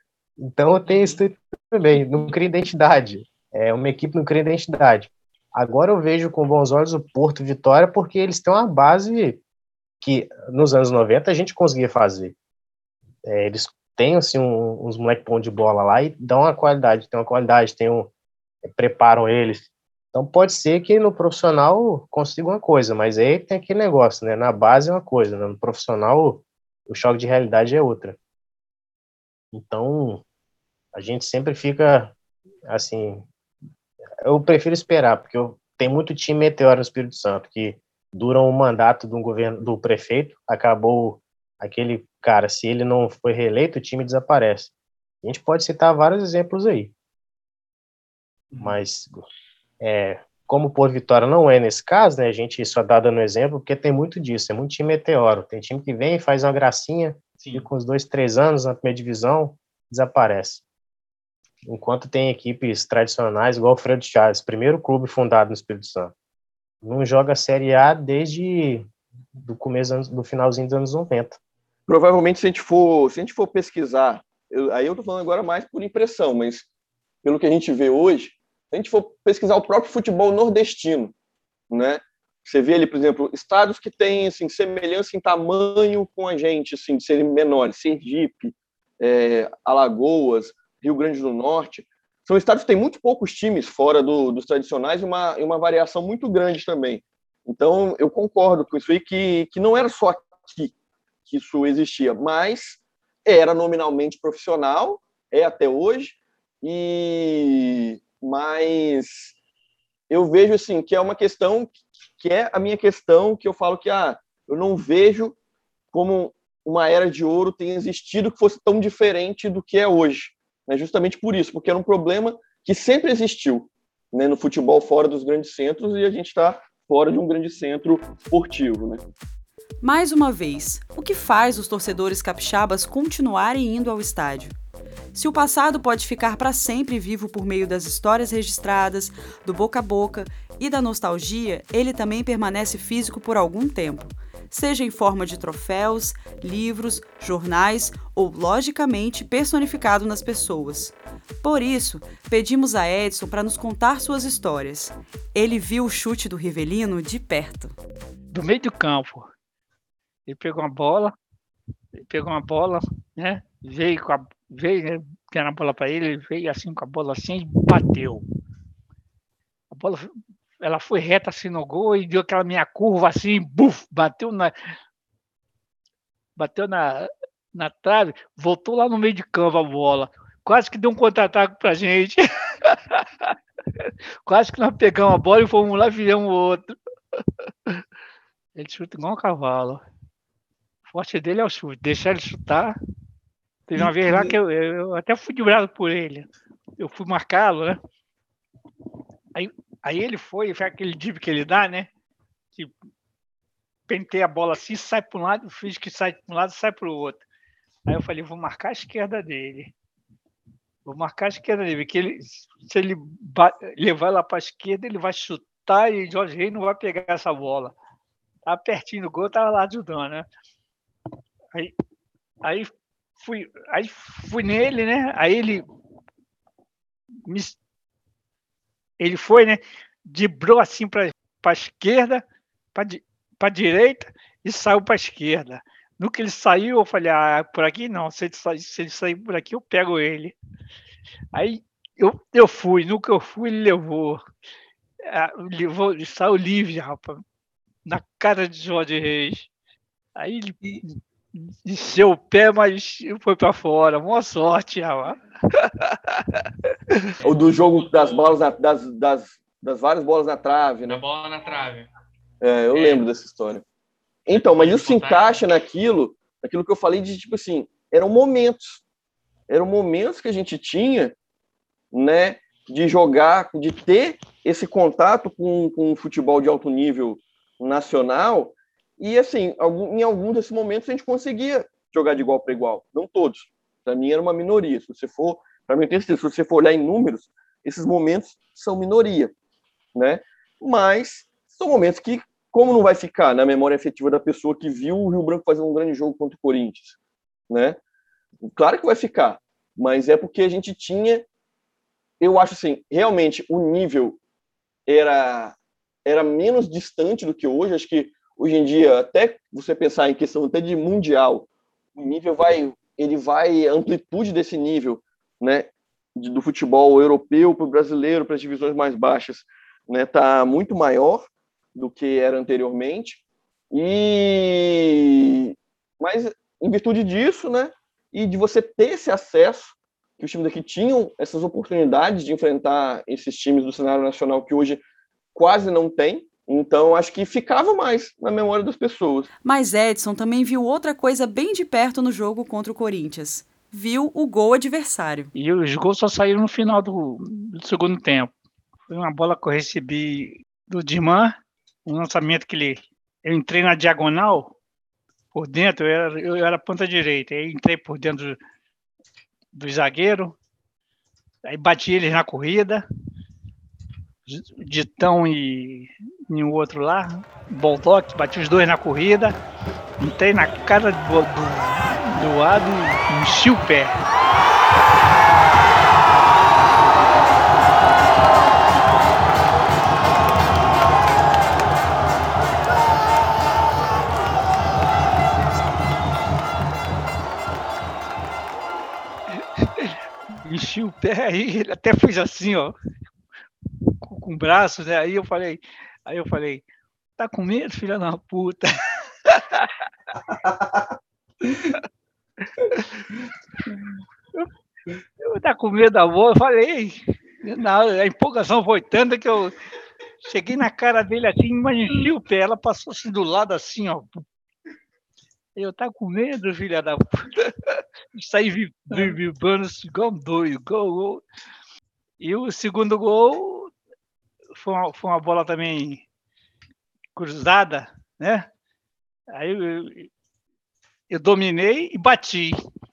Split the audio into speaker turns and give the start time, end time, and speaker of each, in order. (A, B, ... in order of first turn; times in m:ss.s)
0:00.4-0:09.4 A
0:00.9-0:01.2 B
0:10.0-0:12.4 A
0:13.2-0:18.1 A
0:18.6-0:28.2 A
0:29.5-0:30.2 A
0:30.9-0:32.1 A
0:32.7-0:33.3 A
0:34.2-0:44.7 A
0:45.2-0:46.9 A
0:48.6-0:49.2 A
0:49.8-1:00.6 A
0:57.4-0:57.7 B
1:01.6-1:06.1 A
1:06.8-1:08.9 A
1:09.4-1:11.4 A
1:11.9-1:16.6 C
1:17.2-1:21.1 C
1:21.7-1:40.7 C
1:41.3-1:49.4 C
1:50.1-1:55.4 C
1:55.9-2:09.0 C
2:09.8-2:14.5 D
2:15.1-2:37.8 D
2:38.3-2:39.3 E
2:40.3-2:41.1 E
2:42.0-2:48.2 E
2:49.7-2:50.1 E
2:50.6-2:54.5 E
2:56.4-3:06.7 E
3:08.6-3:09.8 E
3:10.9-3:12.8 E
3:13.7-3:16.3 E
3:16.8-3:17.8 E
3:19.4-3:21.9 E
3:23.9-3:27.2 E
3:27.9-3:29.7 E
3:30.8-3:37.8 E
3:38.5-3:40.2 E
3:42.4-3:45.6 E
3:47.3-3:47.6 E
3:49.0-3:52.2 E
3:52.8-4:00.4 E
4:01.3-4:04.2 E
4:05.1-4:07.2 E
4:07.8-4:09.5 E
4:10.2-4:10.6 E
4:11.3-4:16.4 E
4:17.2-4:21.0 C
4:17.2-4:18.4 B
4:20.9-4:21.9 B
4:22.4-4:23.6 C
4:22.7-4:23.0 B
4:24.3-4:28.8 C
4:24.3-4:25.4 B
4:29.5-4:31.2 C
4:31.9-4:49.3 C
4:49.9-4:57.0 C
4:57.5-4:57.8 C
4:58.4-5:01.2 C
5:02.2-5:04.2 C
5:04.9-5:34.8 C
5:35.4-5:39.3 C
5:39.4-5:45.3 D
5:45.4-5:48.3 E
5:48.9-5:54.6 E
5:55.3-5:58.4 E
5:59.5-6:00.4 E
6:01.4-6:02.8 E
6:04.2-6:09.4 E
6:10.0-6:14.0 E
6:29.6-6:32.8 E
6:34.0-6:36.6 E
6:37.2-6:38.7 E
6:39.2-6:39.7 E
6:41.5-6:41.8 E
6:45.2-6:49.5 E
6:50.2-6:54.2 E
6:55.6-7:01.2 E
7:02.2-7:03.7 E
7:04.6-7:06.0 E
7:07.2-7:08.5 E
7:09.3-7:10.1 E
7:11.1-7:12.6 E